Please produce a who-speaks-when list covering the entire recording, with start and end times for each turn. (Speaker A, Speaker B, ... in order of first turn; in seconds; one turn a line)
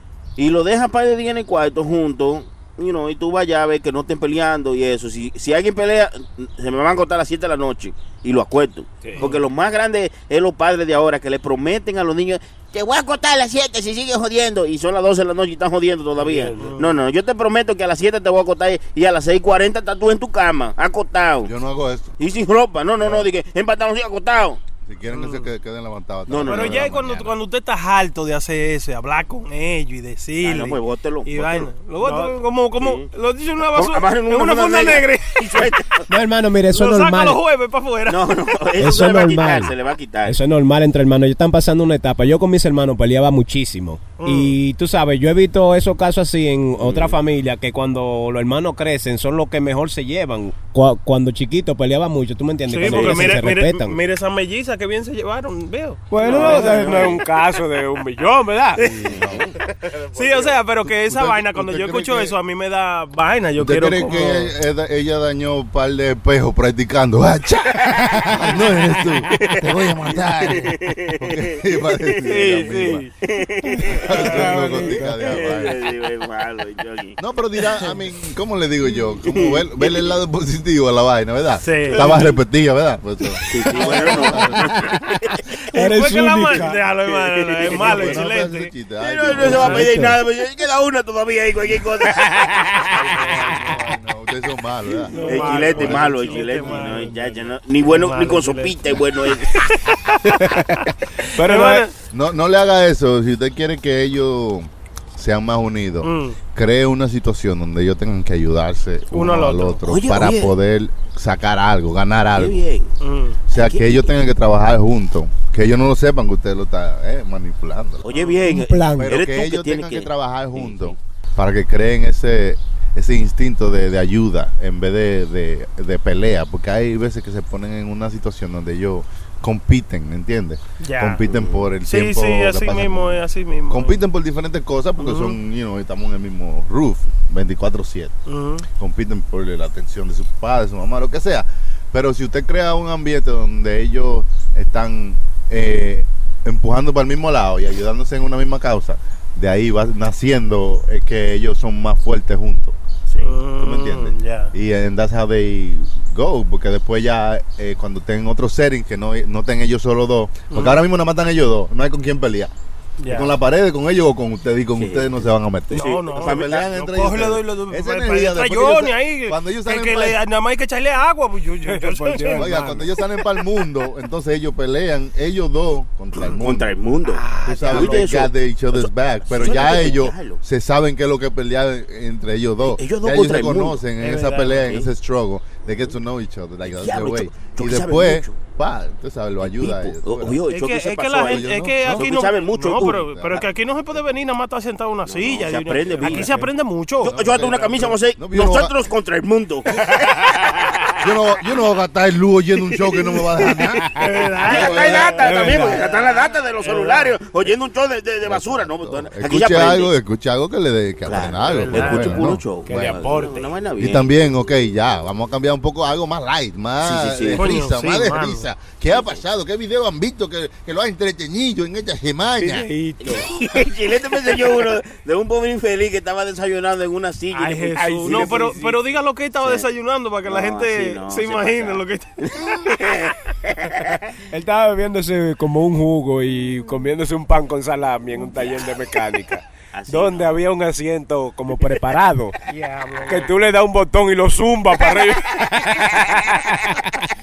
Speaker A: 0.4-21.5
Speaker B: 9.0-9.3
Speaker B: 16.2-16.8
Speaker C: 16.6-17.0
Speaker D: 21.4-22.2
Speaker A: 22.2-24.6
Speaker D: 23.0-23.3
Speaker D: 24.9-27.4
Speaker C: 25.1-25.5
Speaker A: 26.3-26.9
Speaker C: 26.4-35.8
Speaker A: 30.4-33.1
Speaker A: 33.7-36.1
Speaker B: 36.1-37.4
Speaker C: 36.7-38.4
Speaker A: 38.1-40.4
Speaker B: 38.8-39.7
Speaker B: 40.3-54.0
Speaker C: 44.2-44.6
Speaker A: 46.8-47.1
Speaker C: 52.7-57.2
Speaker A: 52.8-53.4
Speaker B: 56.1-60.6
Speaker A: 56.2-57.1
Speaker C: 58.8-59.0
Speaker D: 59.0-59.5
Speaker A: 59.0-59.5
Speaker C: 60.1-64.5
Speaker D: 60.8-62.4
Speaker D: 63.6-73.1
Speaker B: 68.0-68.4
Speaker A: 69.3-72.2
Speaker C: 72.3-73.1
Speaker A: 73.2-74.2
Speaker B: 73.7-75.7
Speaker D: 74.0-75.8
Speaker A: 75.2-77.2
Speaker D: 77.2-84.9
Speaker A: 79.2-80.1
Speaker C: 81.6-82.4
Speaker A: 83.5-85.5
Speaker B: 83.8-84.8
Speaker B: 85.7-86.8
Speaker C: 85.7-88.7
Speaker A: 87.0-88.2
Speaker D: 87.7-90.0
Speaker A: 89.0-92.8
Speaker B: 89.4-90.2
Speaker B: 92.3-92.6
Speaker D: 92.9-96.2
Speaker C: 95.1-97.2
Speaker B: 95.2-97.3
Speaker A: 95.2-99.6
Speaker C: 97.8-99.0
Speaker C: 99.5-100.4
Speaker B: 100.2-101.8
Speaker C: 101.4-101.9
Speaker D: 102.1-112.6
Speaker C: 106.0-106.4
Speaker C: 109.1-109.8
Speaker A: 109.9-110.5
Speaker A: 112.4-112.9
Speaker C: 113.0-113.4
Speaker D: 113.5-118.0
Speaker A: 113.5-114.1
Speaker A: 118.0-121.0
Speaker C: 118.1-118.4
Speaker B: 118.5-119.2
Speaker D: 119.0-138.1
Speaker C: 130.8-131.2
Speaker A: 131.3-131.7
Speaker C: 131.8-134.0
Speaker C: 135.0-135.4
Speaker C: 138.3-138.7
Speaker D: 138.8-152.8
Speaker C: 153.2-154.5
Speaker D: 153.6-162.5
Speaker C: 160.5-160.8
Speaker C: 163.0-163.3
Speaker D: 163.1-170.2
Speaker A: 164.8-166.7
Speaker C: 165.7-172.7
Speaker B: 171.7-172.9
Speaker D: 172.3-176.7
Speaker A: 176.2-180.4
Speaker C: 177.2-178.1
Speaker D: 177.4-190.4
Speaker A: 182.6-183.8
Speaker C: 184.0-184.8
Speaker A: 186.7-188.4
Speaker A: 189.4-193.1
Speaker C: 190.5-197.7
Speaker D: 191.2-192.1
Speaker D: 192.9-193.5
Speaker A: 195.1-196.4
Speaker B: 196.0-196.5
Speaker A: 197.0-201.0
Speaker D: 197.2-198.8
Speaker D: 201.0-203.9
Speaker C: 204.0-205.9
Speaker A: 204.4-209.9
Speaker D: 204.5-205.1
Speaker B: 204.7-205.8
Speaker C: 206.6-207.2
Speaker D: 208.2-212.9
Speaker A: 211.1-214.1
Speaker C: 211.5-212.2
Speaker B: 212.7-213.5
Speaker D: 213.8-222.7
Speaker A: 216.8-217.6
Speaker C: 217.3-218.5
Speaker B: 222.4-223.3
Speaker A: 223.0-228.5
Speaker C: 227.3-232.2
Speaker B: 227.8-228.8
Speaker A: 229.4-229.7
Speaker A: 230.3-233.9
Speaker B: 234.3-242.4
Speaker A: 238.3-238.7
Speaker A: 239.7-240.4
Speaker C: 242.5-243.4
Speaker B: 243.1-246.9